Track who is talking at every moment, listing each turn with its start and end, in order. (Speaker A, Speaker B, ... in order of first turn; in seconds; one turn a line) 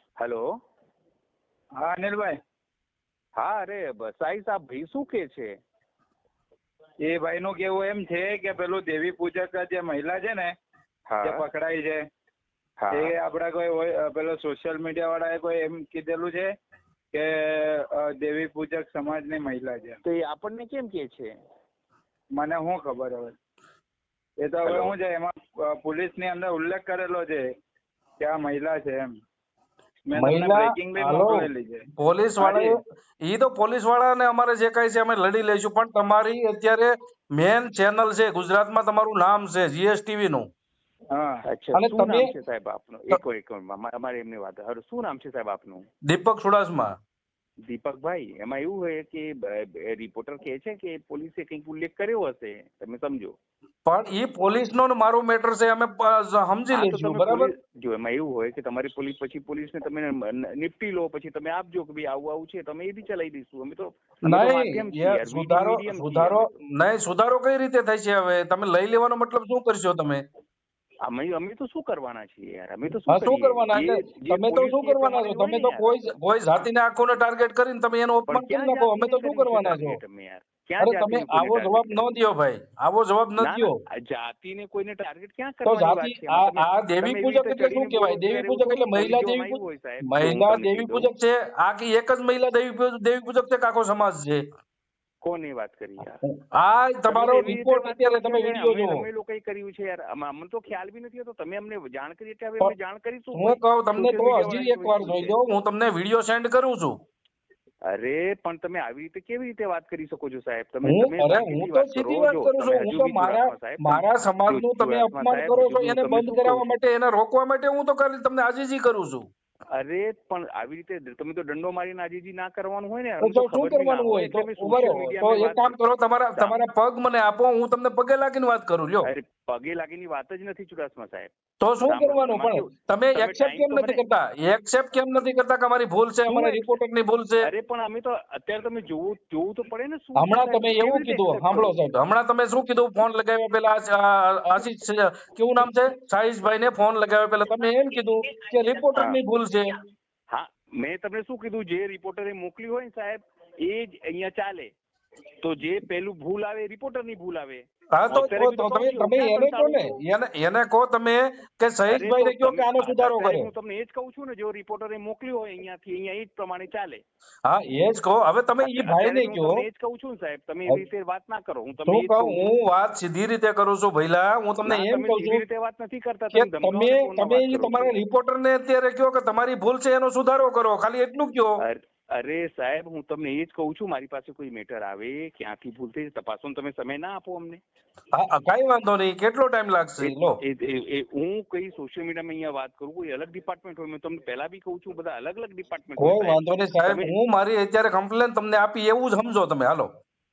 Speaker A: 0.2-0.5
Speaker B: 1.8-2.4
Speaker A: 3.4-5.5
Speaker B: 7.0-10.5
Speaker A: 11.1-11.4
Speaker B: 11.2-12.0
Speaker A: 12.8-13.1
Speaker B: 12.9-16.5
Speaker B: 17.1-20.0
Speaker A: 20.1-21.3
Speaker B: 22.3-23.4
Speaker B: 24.4-27.4
Speaker A: 24.6-24.9
Speaker B: 28.2-29.1
Speaker B: 30.1-31.9
Speaker C: 30.2-40.5
Speaker B: 32.4-32.8
Speaker B: 41.1-41.4
Speaker A: 41.5-45.9
Speaker C: 41.7-42.3
Speaker C: 46.1-46.9
Speaker A: 47.7-53.4
Speaker C: 53.9-57.5
Speaker A: 56.7-66.5
Speaker C: 64.2-70.2
Speaker A: 71.0-76.1
Speaker C: 73.1-80.0
Speaker A: 78.3-82.1
Speaker C: 80.8-83.8
Speaker A: 83.4-91.1
Speaker C: 85.7-94.4
Speaker A: 95.2-96.2
Speaker C: 96.2-99.0
Speaker A: 97.1-105.4
Speaker C: 103.3-107.0
Speaker A: 107.9-116.7
Speaker C: 110.8-119.3
Speaker A: 119.7-125.8
Speaker C: 123.2-129.1
Speaker A: 129.0-131.3
Speaker C: 131.6-137.5
Speaker A: 131.8-134.0
Speaker A: 136.3-136.7
Speaker A: 137.4-141.8
Speaker C: 140.2-149.7
Speaker A: 150.3-154.7
Speaker A: 155.4-159.9
Speaker C: 157.9-163.5
Speaker A: 161.9-167.0
Speaker C: 167.5-169.7
Speaker A: 168.6-172.5
Speaker C: 171.9-175.4
Speaker A: 174.7-178.0
Speaker C: 176.3-181.6
Speaker A: 181.6-187.6
Speaker C: 188.2-190.4
Speaker A: 190.0-197.2
Speaker C: 196.0-199.9